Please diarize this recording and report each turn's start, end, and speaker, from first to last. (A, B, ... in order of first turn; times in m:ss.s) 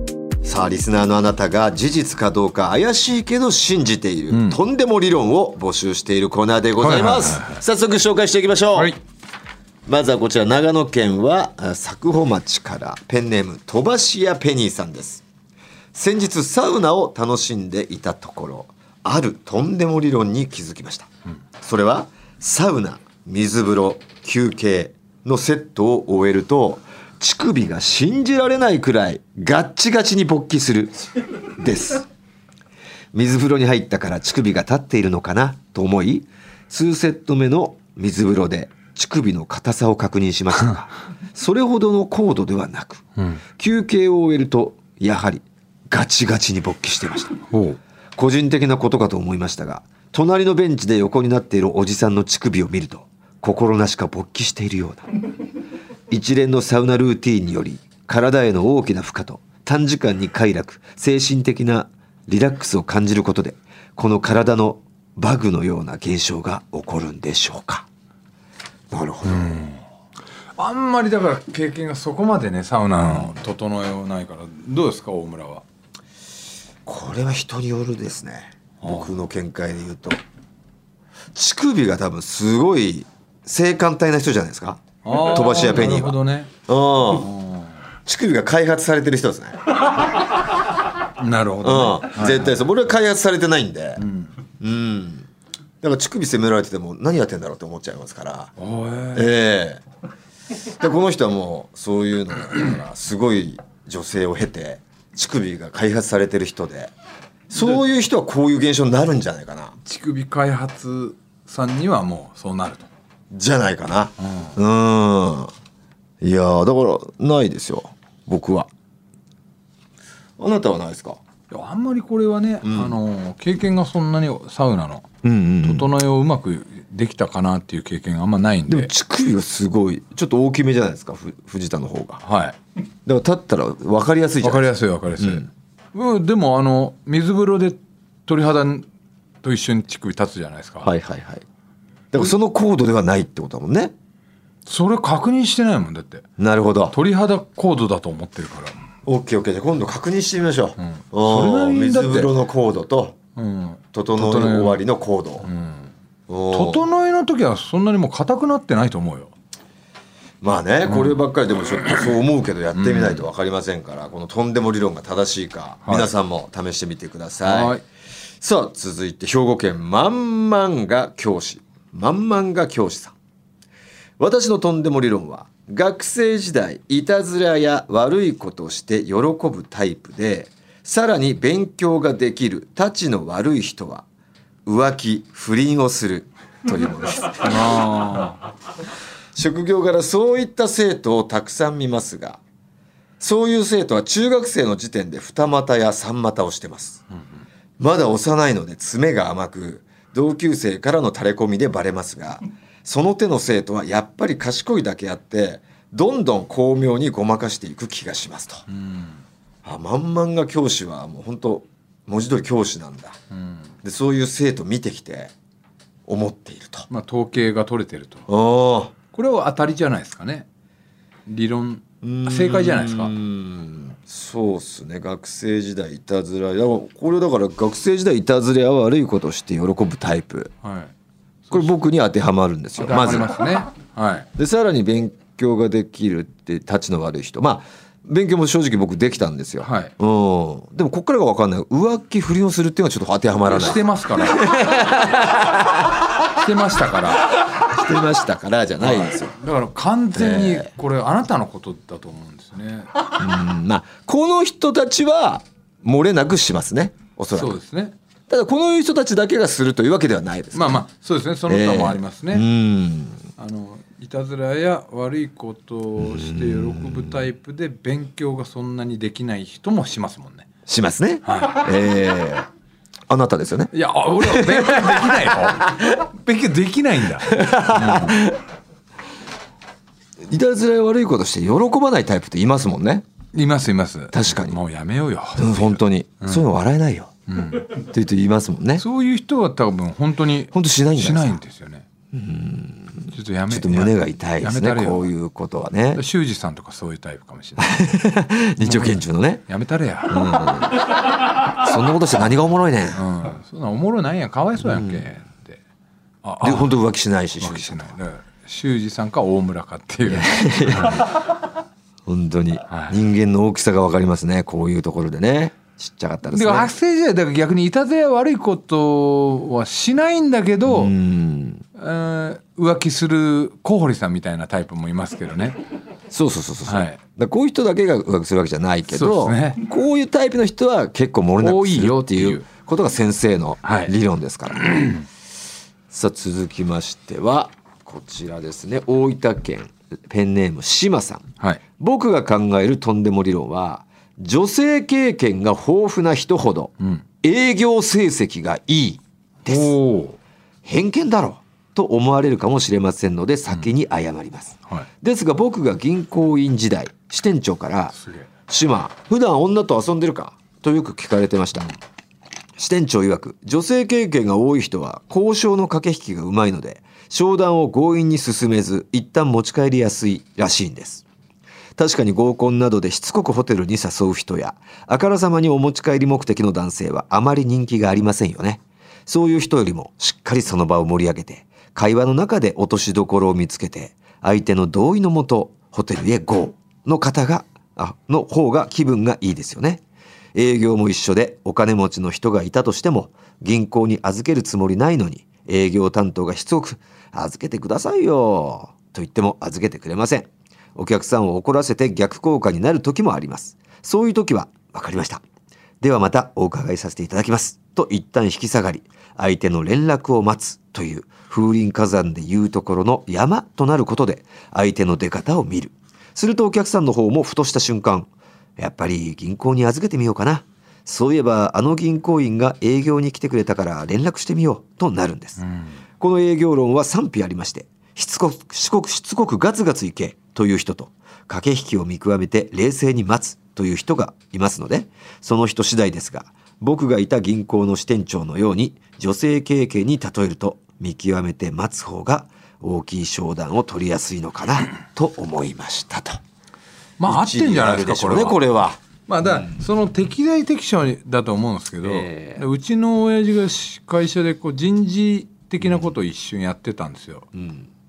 0:00.4-0:09.0 A
0:04.3-0:04.6 B
0:06.8-0:07.6 B
0:09.9-0:15.2 A
0:15.9-0:21.1 A
0:21.6-0:32.0 A
0:33.1-0:43.0 A
0:43.6-0:47.4 A
0:47.5-0:47.8 B
0:48.2-0:55.1 A
0:56.1-1:07.9 A
1:08.9-1:09.7 A
1:09.2-1:09.8 B
1:10.6-1:15.6 B
1:13.1-1:13.3 A
1:16.8-1:20.2 A
1:18.8-1:19.1 B
1:21.3-1:27.3 A
1:25.0-1:26.5 B
1:27.1-1:27.7 B
1:28.0-1:29.7 A
1:31.1-1:32.6 B
1:31.6-1:34.0 A
1:34.0-1:34.3 B
1:34.6-1:35.3 A
1:35.8-1:38.5 A
1:38.6-1:39.3 B
1:39.1-1:39.8 A
1:40.8-1:46.9 A
1:47.5-1:49.7 A
1:47.5-1:47.8 B
1:49.8-1:52.9 B
1:53.3-1:55.5 A
1:54.2-1:54.5 B
1:56.2-1:58.7 A
2:00.4-2:01.2 A
2:01.5-2:05.1 B
2:02.6-2:03.0 A
2:05.2-2:05.9 A
2:05.6-2:08.9 B
2:08.7-2:12.2 A
2:12.2-2:12.6 B
2:13.0-2:15.5 A
2:14.4-2:18.9 B
2:19.4-2:20.9 B
2:20.8-2:21.4 A
2:22.1-2:23.9 A
2:24.6-2:26.2 B
2:26.4-2:27.0 A
2:26.9-2:28.7 B
2:29.0-2:33.2 A
2:31.2-2:32.3 B
2:33.4-2:34.8 B
2:33.9-2:35.5 A
2:35.4-2:35.9 B
2:36.3-2:36.8 A
2:36.5-2:39.3 B
2:40.4-2:47.8 A
2:40.9-2:41.2 B
2:42.7-2:43.2 B
2:45.8-2:46.1 B
2:47.4-2:47.8 B
2:48.4-2:53.1 A
2:54.2-3:04.0 A
3:04.6-3:07.8 A
3:07.4-3:08.4 B
3:09.4-3:12.4 A
3:13.2-3:17.0 A
3:17.8-3:28.6 A
3:28.7-3:29.2 B
3:29.6-3:33.2 A
3:33.3-3:33.6 B
3:33.8-3:35.3 A
3:36.1-3:36.9 A
3:36.9-3:38.2 B
3:38.3-3:38.9 A
3:39.1-3:40.5 B
3:41.2-3:43.1 B
3:42.0-3:50.5 A
3:50.6-3:50.9 B
3:51.5-3:53.4 A
3:52.8-3:54.3 B
3:54.4-4:06.0 A
3:59.6-3:59.9 B
4:03.4-4:04.8 B
4:06.3-4:07.3 B
4:07.5-4:09.4 A
4:08.8-4:12.9 B
4:10.1-4:10.7 A
4:13.2-4:17.6 A
4:17.3-4:17.9 B
4:18.3-4:20.8 A
4:20.5-4:22.4 B
4:21.5-4:23.2 A
4:23.4-4:30.5 B
4:26.0-4:27.1 A
4:30.7-4:32.5 A
4:31.2-4:31.7 B
4:33.1-4:35.8 A
4:33.7-4:38.2 B
4:37.3-4:38.4 A
4:40.3-4:43.0 A
4:43.3-4:46.4 B
4:44.1-4:44.6 A
4:45.4-4:47.1 A
4:47.3-4:47.7 B
4:47.8-4:48.8 A
4:48.8-4:51.8 B
4:50.5-4:51.4 A
4:52.1-4:56.0 A
4:53.1-4:55.1 B
4:55.9-4:57.9 B
4:57.6-4:59.4 A
4:58.6-5:00.5 B
5:00.1-5:00.9 A
5:01.5-5:03.0 A
5:02.9-5:05.6 B
5:04.7-5:05.0 A
5:06.2-5:06.8 B
5:06.4-5:07.9 A
5:07.4-5:11.1 B
5:10.1-5:11.2 A
5:12.0-5:16.7 A
5:12.7-5:13.0 B
5:16.3-5:20.9 B
5:20.6-5:21.6 A
5:21.8-5:25.6 B
5:26.1-5:35.0 A
5:26.6-5:27.0 B
5:28.9-5:29.6 B
5:31.4-5:32.4 B
5:33.6-5:33.9 B
5:35.9-5:41.2 A
5:41.8-5:49.7 A
5:49.4-5:50.2 B
5:50.6-6:01.7 A
5:58.0-5:58.2 B
6:02.6-6:11.0 A
6:11.8-6:29.8 A
6:30.3-6:45.2 A
6:45.8-7:05.4 A
7:05.4-7:05.7 B
7:06.0-7:26.2 A
7:27.0-7:28.4 B
7:27.1-7:29.6 A
7:29.1-7:37.3 B
7:31.8-7:32.4 A
7:37.3-7:37.7 A